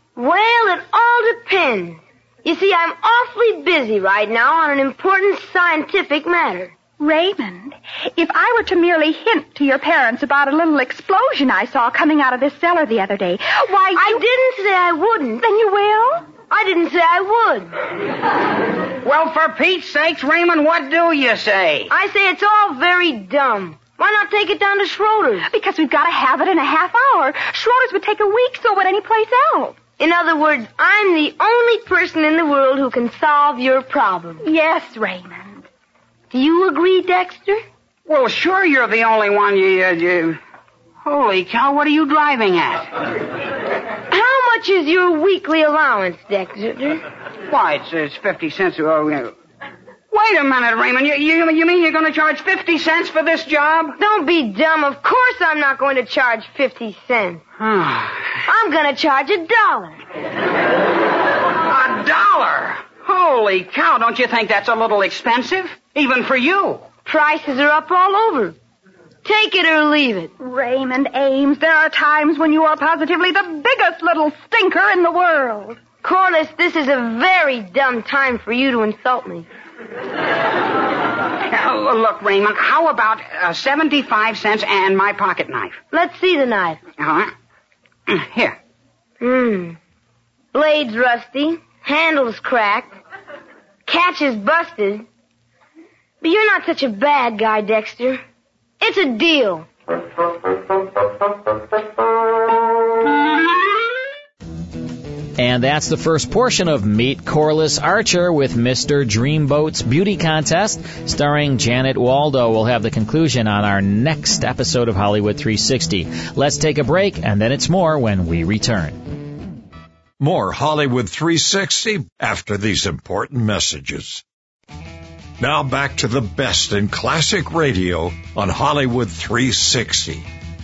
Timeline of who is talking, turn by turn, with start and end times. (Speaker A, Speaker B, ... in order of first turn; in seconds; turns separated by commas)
Speaker A: 0.1-6.7, Speaker B: 7.0-14.2, Speaker A: 13.9-15.4, Speaker B: 15.4-16.3, Speaker A: 16.5-17.7, Speaker C: 19.0-21.9, Speaker A: 21.9-25.5, Speaker B: 25.5-29.8, Speaker A: 30.0-34.4, Speaker B: 34.4-35.6, Speaker A: 36.3-37.6, Speaker C: 38.0-40.4, Speaker C: 41.0-42.9, Speaker A: 44.1-47.0, Speaker C: 47.5-49.3, Speaker C: 50.1-54.0, Speaker A: 54.0-57.4, Speaker C: 57.6-58.2, Speaker A: 58.5-60.0, Speaker C: 61.7-66.9, Speaker A: 67.0-68.5, Speaker A: 69.2-70.3, Speaker B: 70.4-75.8, Speaker A: 76.0-79.5, Speaker C: 81.5-85.8, Speaker A: 85.9-86.8, Speaker C: 87.0-87.3, Speaker C: 88.1-88.6, Speaker A: 89.2-89.8, Speaker A: 90.5-92.9, Speaker A: 93.9-95.0, Speaker A: 96.2-98.2, Speaker A: 98.8-99.7, Speaker D: 105.4-119.0, Speaker E: 120.2-124.2, Speaker E: 125.4-130.2